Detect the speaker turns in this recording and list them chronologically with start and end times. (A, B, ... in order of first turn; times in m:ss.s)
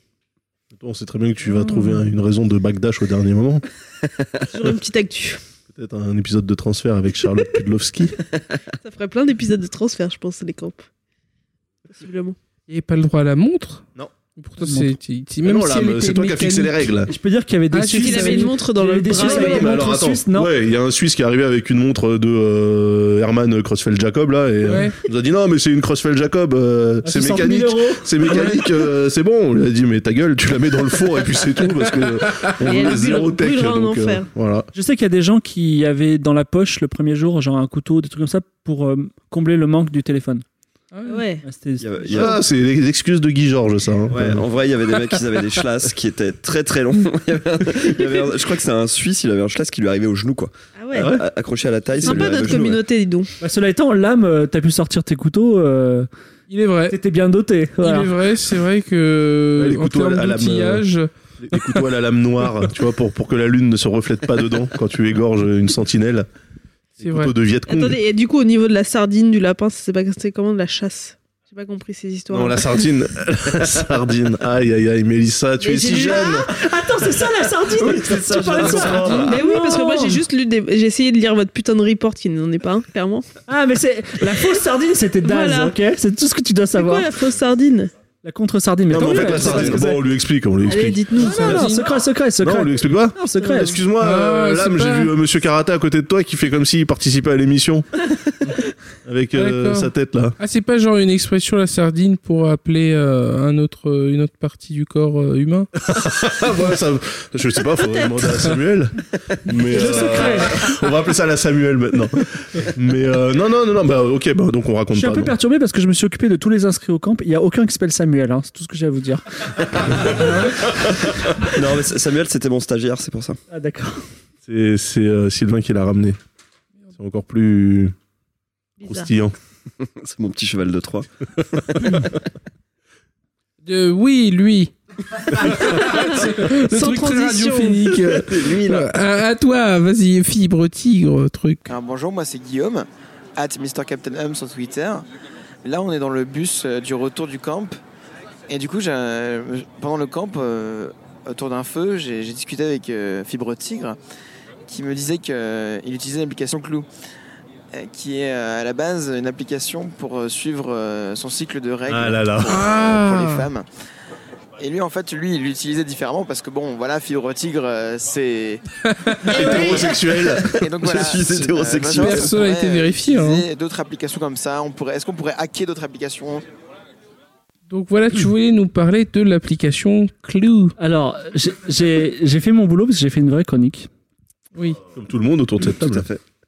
0:00.7-0:03.6 A
0:04.5-0:05.4 B
0:05.7-0:08.2 A
0:08.8-0:10.8 B
0:11.9-0:12.4 B
0:12.7-0:13.9 C
0:14.4-0:16.9 C
0:14.6-0:14.9 D
0:15.4-0:17.1 A
0:17.1-0:20.5 D
0:17.7-0:18.5 C
0:18.0-0:19.8 B
0:19.2-0:34.7 A
0:24.7-0:25.0 C
0:27.0-0:28.6 D
0:32.7-0:34.3 B
0:34.7-0:40.4 D
0:40.9-0:41.2 C
0:41.1-0:41.4 B
0:41.4-0:42.2 D
0:41.8-0:42.4 E
0:42.1-0:44.4 A
0:44.1-0:52.8 E
0:50.8-0:51.1 B
0:52.0-0:53.3 B
0:53.4-0:56.1 D
0:56.5-0:57.0 C
0:56.9-0:58.1 D
0:57.8-1:01.1 C
0:59.6-1:00.8 A
1:01.4-1:06.3 A
1:07.0-1:08.0 A
1:07.0-1:07.3 C
1:07.7-1:12.6 B
1:12.3-1:16.5 A
1:15.6-1:16.4 B
1:16.0-1:20.2 D
1:17.8-1:19.3 E
1:19.1-1:23.3 B
1:23.5-1:27.1 D
1:25.2-1:25.8 B
1:26.8-1:27.9 B
1:28.2-1:30.0 D
1:28.9-1:31.1 A
1:29.4-1:29.6 B
1:30.7-1:31.6 B
1:31.2-1:33.8 D
1:31.4-1:31.8 C
1:32.4-1:37.9 A
1:34.0-1:35.1 C
1:39.0-1:40.4 A
1:39.4-1:45.7 C
1:45.8-1:49.0 A
1:49.5-1:55.3 A
1:49.7-1:50.5 D
1:54.9-1:59.2 D
1:59.9-2:00.7 D
2:01.5-2:03.4 E
2:03.5-2:04.0 D
2:04.4-2:06.2 A
2:07.0-2:08.0 A
2:08.8-2:09.1 B
2:08.8-2:09.3 A
2:09.8-2:12.1 E
2:13.6-2:14.7 C
2:15.3-2:21.7 C
2:15.9-2:17.8 B
2:18.2-2:18.9 E
2:21.7-2:25.1 F
2:25.6-2:27.8 F
2:28.5-2:34.0 F
2:34.7-2:36.9 F
2:37.7-2:43.6 F
2:41.9-2:42.9 A
2:42.5-2:43.4 C
2:44.6-2:48.6 F
2:49.2-2:50.0 F
2:49.3-2:50.5 A
2:50.6-2:56.4 F
2:50.7-2:52.4 E
2:51.9-2:53.4 C
2:57.7-3:00.8 C
3:00.8-3:03.9 D
3:04.6-3:04.8 C
3:05.0-3:06.1 A
3:05.6-3:06.2 E